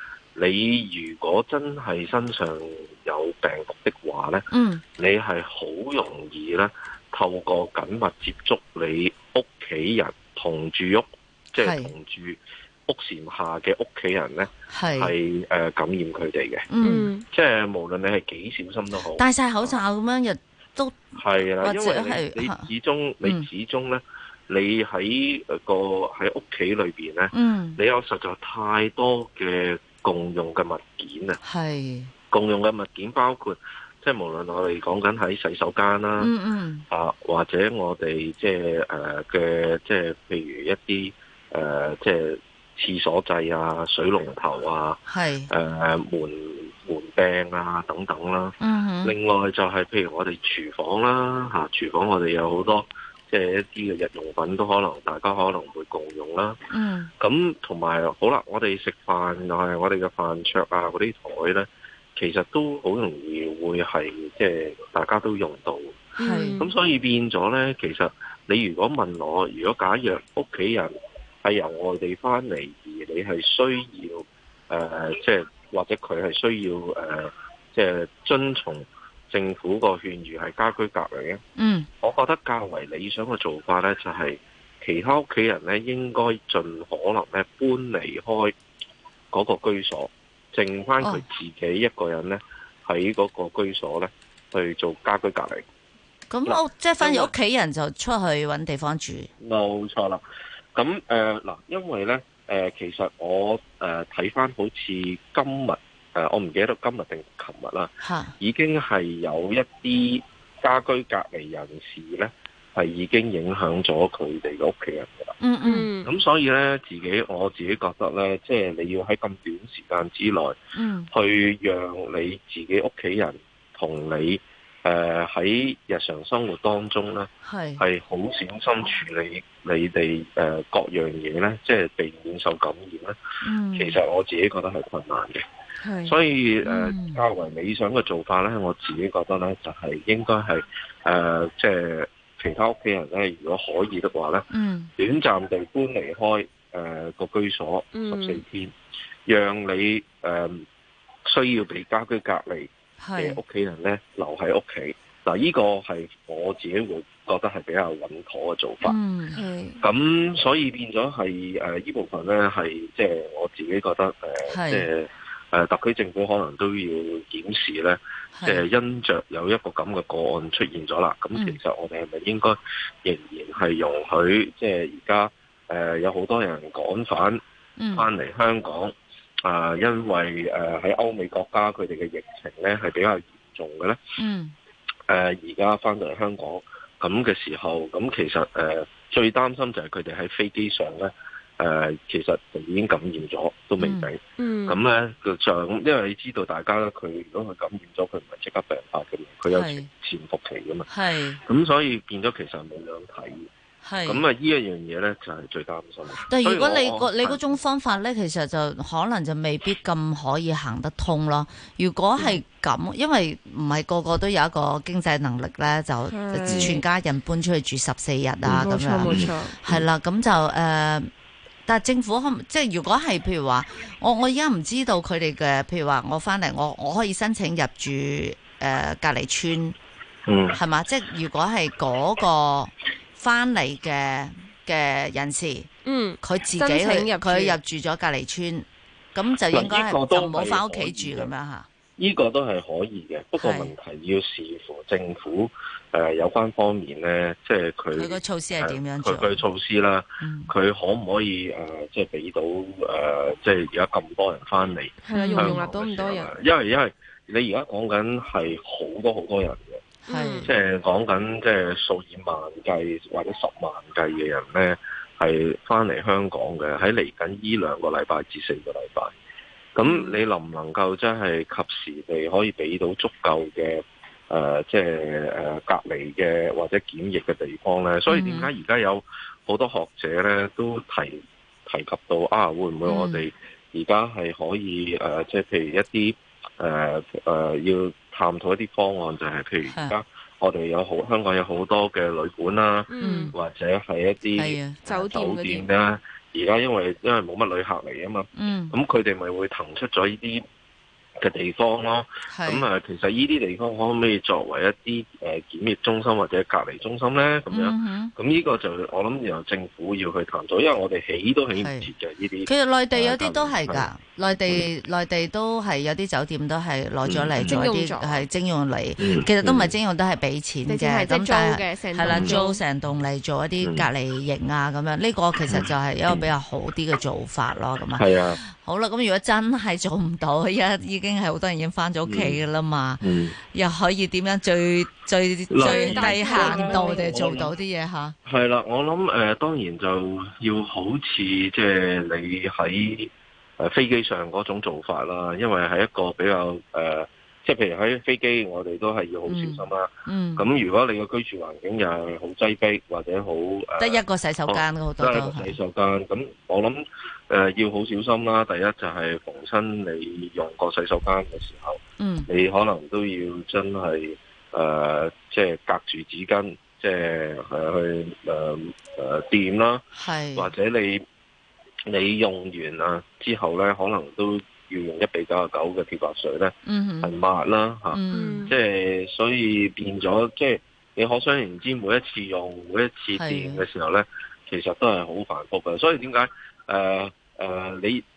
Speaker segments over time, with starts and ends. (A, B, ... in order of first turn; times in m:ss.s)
0:00.4-0:16.7 A
0:04.5-0:04.8 B
0:11.6-0:12.0 B
0:14.7-0:15.1 B
0:16.7-0:17.1 B
0:16.8-0:17.2 C
0:17.2-0:19.8 A
0:19.1-0:22.7 B
0:21.2-0:31.4 A
0:23.2-0:23.5 B
0:27.3-0:27.8 B
0:31.4-0:32.1 B
0:32.3-0:36.3 A
0:36.2-0:36.8 B
0:36.9-0:56.6 A
0:45.1-0:45.5 B
0:48.6-0:49.2 B
0:56.7-0:57.1 B
0:57.2-1:06.0 A
1:06.2-1:06.7 C
1:06.2-1:06.6 B
1:06.6-1:21.4 A
1:21.6-1:21.9 B
1:22.0-1:28.6 A
1:29.3-1:35.6 A
1:31.0-1:31.2 B
1:36.3-1:39.3 B
1:36.5-1:37.3 A
1:39.4-1:40.2 A
1:40.8-1:55.3 A
1:48.0-1:48.3 B
1:55.4-1:55.9 B
1:55.6-1:56.1 C
1:56.0-2:00.6 A
2:00.8-2:01.1 B
2:01.1-2:13.2 A
2:07.4-2:07.8 B
2:13.4-2:14.0 B
2:13.8-2:15.4 A
2:15.8-2:16.1 C
2:16.0-2:28.7 A
2:16.6-2:17.2 B
2:24.5-2:24.9 B
2:27.9-2:28.4 C
2:29.2-2:30.7 A
2:31.2-2:39.0 A
2:33.0-2:33.4 B
2:38.8-2:39.4 B
2:39.3-2:39.8 C
2:39.8-2:57.4 A
2:44.5-2:44.9 B
2:48.4-2:48.6 B
2:57.8-2:58.1 B
2:57.9-2:58.9 A
2:59.4-3:04.0 A
3:04.2-3:04.6 B
3:05.1-3:20.9 A
3:13.8-3:14.1 B
3:14.4-3:14.8 C
3:19.5-3:19.9 B
3:20.9-3:21.4 B
3:21.4-3:23.5 A
3:23.8-3:24.2 B
3:24.0-3:27.6 A
3:26.2-3:41.1 B
3:36.1-3:36.8 C
3:36.4-3:36.8 A
3:38.4-3:39.9 A
3:38.6-3:39.6 C
3:41.7-3:49.8 B
3:50.3-3:50.6 A
3:50.6-3:55.7 B
3:55.8-3:57.6 C
3:56.2-4:01.7 B
3:59.5-4:01.3 A
4:02.0-4:19.8 A
4:03.4-4:03.8 B
4:07.9-4:09.4 B
4:10.2-4:10.5 B
4:15.0-4:16.3 C
4:15.1-4:15.6 B
4:20.1-4:20.5 B
4:20.1-4:20.5 C
4:20.4-4:29.1 A
4:29.8-5:00.4 A
4:29.8-4:30.2 C
4:38.1-4:38.5 B
4:42.8-4:43.2 B
4:49.7-4:49.9 B
4:52.9-4:53.4 C
4:53.0-4:53.4 B
4:54.4-4:54.8 B
4:54.8-4:55.7 C
4:58.4-4:58.8 B
5:01.2-5:13.9 A
5:02.3-5:02.7 B
5:07.5-5:08.1 B
5:11.6-5:11.9 B
5:12.4-5:38.1 B
5:17.0-5:17.6 A
5:17.4-5:18.2 C
5:19.0-5:19.8 A
5:20.7-5:22.6 C
5:22.1-5:22.4 A
5:23.6-5:23.9 A
5:25.5-5:26.3 A
5:28.0-5:28.4 A
5:32.0-5:32.4 A
5:33.0-5:33.4 A
5:35.5-5:37.5 A
5:35.6-5:37.4 C
5:38.2-6:09.8 A
5:49.3-5:50.5 B
5:53.8-5:55.6 B
6:02.0-6:02.3 B
6:10.0-6:10.5 B
6:10.4-6:11.0 A
6:11.9-6:28.0 A
6:16.7-6:17.1 B
6:17.9-6:18.5 B
6:18.1-6:18.5 C
6:23.1-6:23.7 B